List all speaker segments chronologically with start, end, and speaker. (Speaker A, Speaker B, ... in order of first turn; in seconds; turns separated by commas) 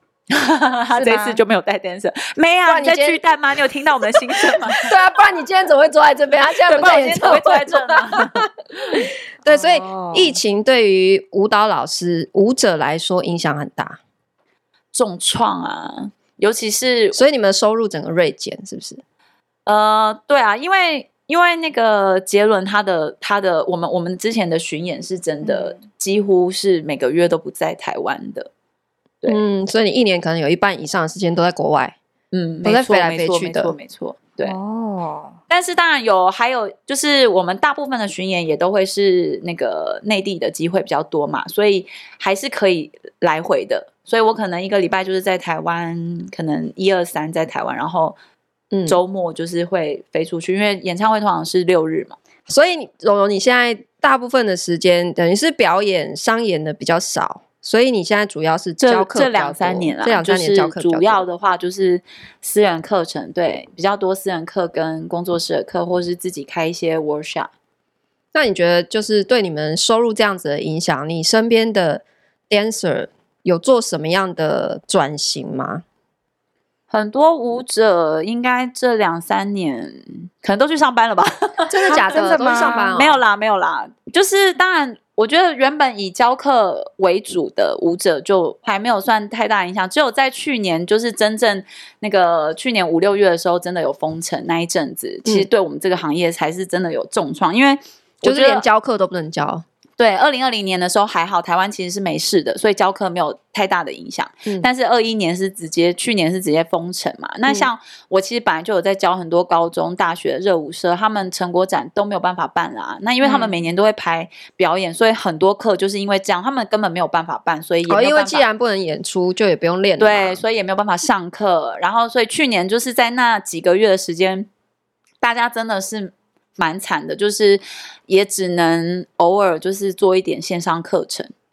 Speaker A: 0.3-4.9, Speaker B: 0.9-1.4, Speaker C: 2.6-3.2, Speaker C: 4.4-14.0, Speaker A: 6.7-8.4, Speaker B: 9.4-10.4, Speaker A: 14.9-17.2, Speaker C: 17.1-19.0, Speaker A: 19.6-28.5, Speaker B: 25.4-25.8, Speaker C: 29.3-31.9, Speaker A: 32.3-34.5, Speaker C: 32.6-33.7, Speaker B: 34.4-35.4, Speaker A: 35.5-48.1, Speaker C: 48.7-49.0, Speaker A: 48.9-52.1, Speaker C: 52.5-61.2, Speaker A: 58.8-67.5, Speaker C: 68.3-75.8, Speaker A: 76.9-98.7, Speaker C: 81.7-83.2, Speaker B: 81.9-83.0, Speaker C: 98.2-99.6, Speaker A: 100.0-118.4, Speaker C: 117.9-120.4, Speaker A: 120.0-124.5, Speaker A: 125.2-131.3